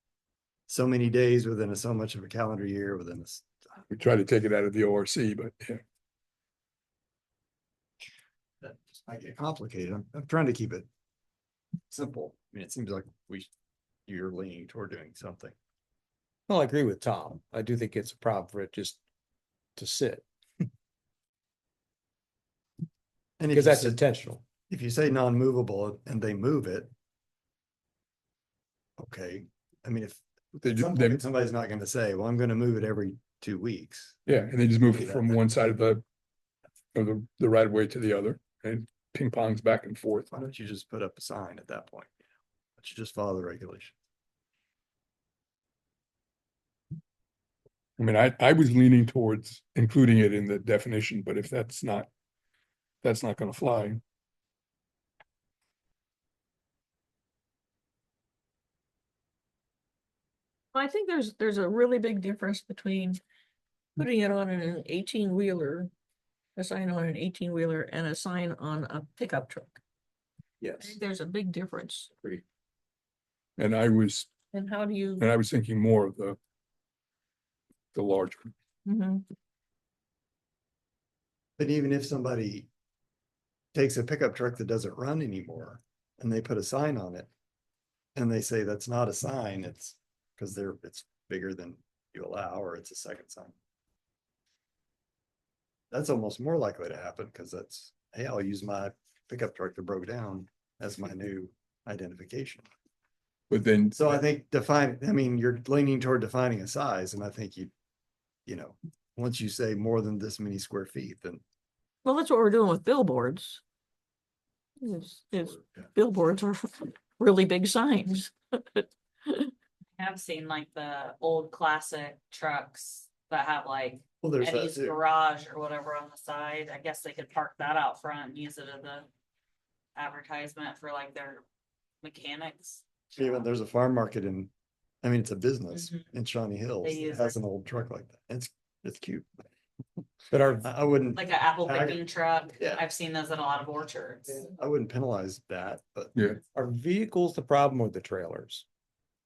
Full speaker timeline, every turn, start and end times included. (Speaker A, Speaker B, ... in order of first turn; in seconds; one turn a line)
Speaker A: 0.7-3.5
Speaker B: 3.9-5.8
Speaker A: 8.6-10.8
Speaker A: 11.9-13.5
Speaker A: 14.1-15.5
Speaker C: 16.5-19.0
Speaker C: 19.8-20.2
Speaker A: 23.4-24.0
Speaker C: 23.5-24.4
Speaker A: 24.7-26.9
Speaker A: 29.0-34.2
Speaker B: 30.6-31.2
Speaker B: 34.2-36.0
Speaker A: 34.9-35.3
Speaker B: 36.9-40.3
Speaker A: 40.3-42.1
Speaker A: 42.8-44.0
Speaker B: 48.0-52.1
Speaker B: 53.0-54.0
Speaker D: 60.7-63.2
Speaker D: 64.0-65.9
Speaker D: 66.5-69.8
Speaker C: 70.6-71.0
Speaker D: 70.8-72.1
Speaker B: 73.6-74.3
Speaker D: 74.5-75.3
Speaker B: 75.2-76.4
Speaker B: 77.9-78.5
Speaker D: 78.8-79.2
Speaker A: 81.6-82.7
Speaker A: 83.7-87.3
Speaker A: 88.2-93.5
Speaker A: 95.9-102.7
Speaker B: 103.5-104.2
Speaker A: 103.9-107.7
Speaker A: 108.5-111.4
Speaker D: 112.0-113.6
Speaker D: 114.8-119.5
Speaker E: 120.0-129.1
Speaker A: 124.2-125.0
Speaker E: 129.9-131.4
Speaker E: 132.0-133.5
Speaker A: 133.2-134.5
Speaker A: 135.0-139.3
Speaker E: 135.7-136.0
Speaker E: 136.8-137.4
Speaker C: 140.3-140.7
Speaker A: 140.6-142.0
Speaker E: 141.1-144.3
Speaker A: 144.3-146.1
Speaker B: 146.1-146.4
Speaker C: 146.5-148.6